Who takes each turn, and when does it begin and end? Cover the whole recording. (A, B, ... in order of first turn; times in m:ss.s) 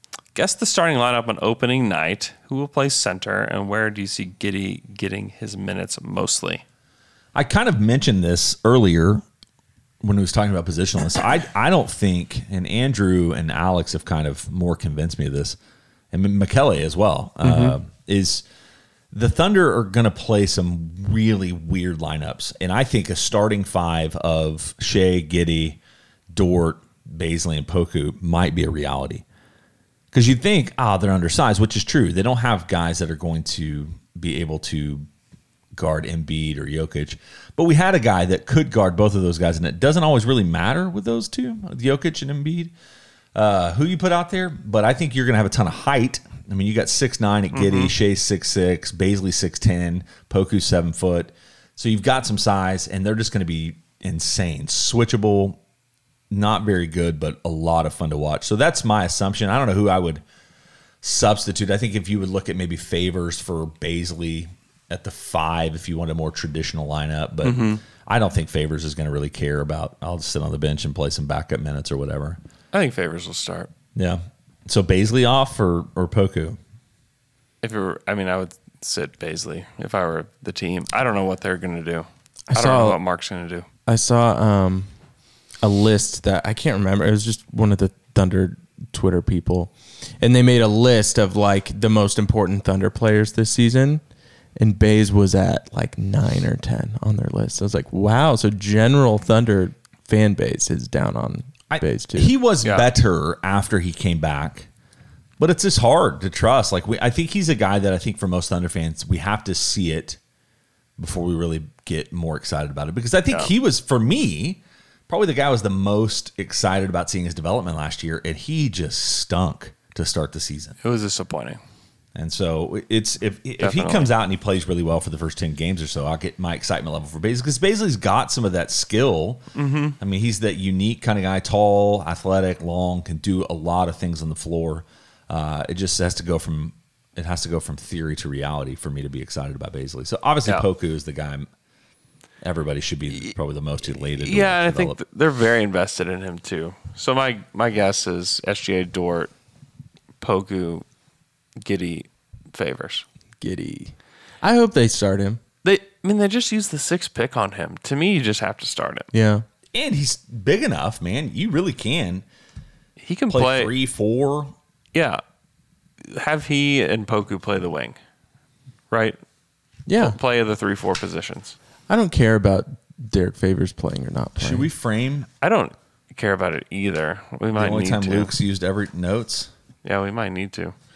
0:00.4-0:06.6 A
0:07.3-0:09.2 B
0:10.0-0:15.6 B
0:16.1-0:18.4 B
0:17.4-0:17.8 A
0:19.1-0:25.8 B
0:26.3-0:29.2 B
0:30.1-0:35.1 B
0:35.8-0:42.7 B
0:43.4-0:55.6 B
0:47.5-0:47.9 A
0:56.3-1:00.2 B
1:01.0-1:12.4 B
1:07.4-1:07.8 A
1:12.7-1:13.7 A
1:14.0-1:16.6 B
1:17.6-1:23.7 A
1:22.5-1:23.0 C
1:23.9-1:24.9 C
1:25.6-1:34.0 C
1:34.6-1:42.3 C
1:41.7-1:44.7 B
1:45.4-1:50.2 B
1:51.0-2:00.8 B
2:00.8-2:01.6 A
2:02.2-2:09.4 B
2:03.6-2:04.1 A
2:09.6-2:10.0 A
2:10.0-2:21.5 B
2:22.4-2:25.0 B
2:23.9-2:29.3 A
2:30.2-2:30.8 A
2:31.6-2:33.0 A
2:33.4-2:35.4 C
2:35.6-2:39.1 A
2:39.1-2:39.4 C
2:39.7-2:42.2 B
2:43.0-2:43.7 A
2:43.3-2:44.5 B
2:44.9-2:45.2 A
2:46.0-2:48.0 A
2:48.9-2:49.2 A
2:49.9-2:50.2 C
2:50.0-2:51.6 A
2:51.9-2:54.7 C
2:54.4-2:55.3 B
2:55.4-2:58.3 A
2:57.6-2:59.5 B
2:59.8-3:00.7 A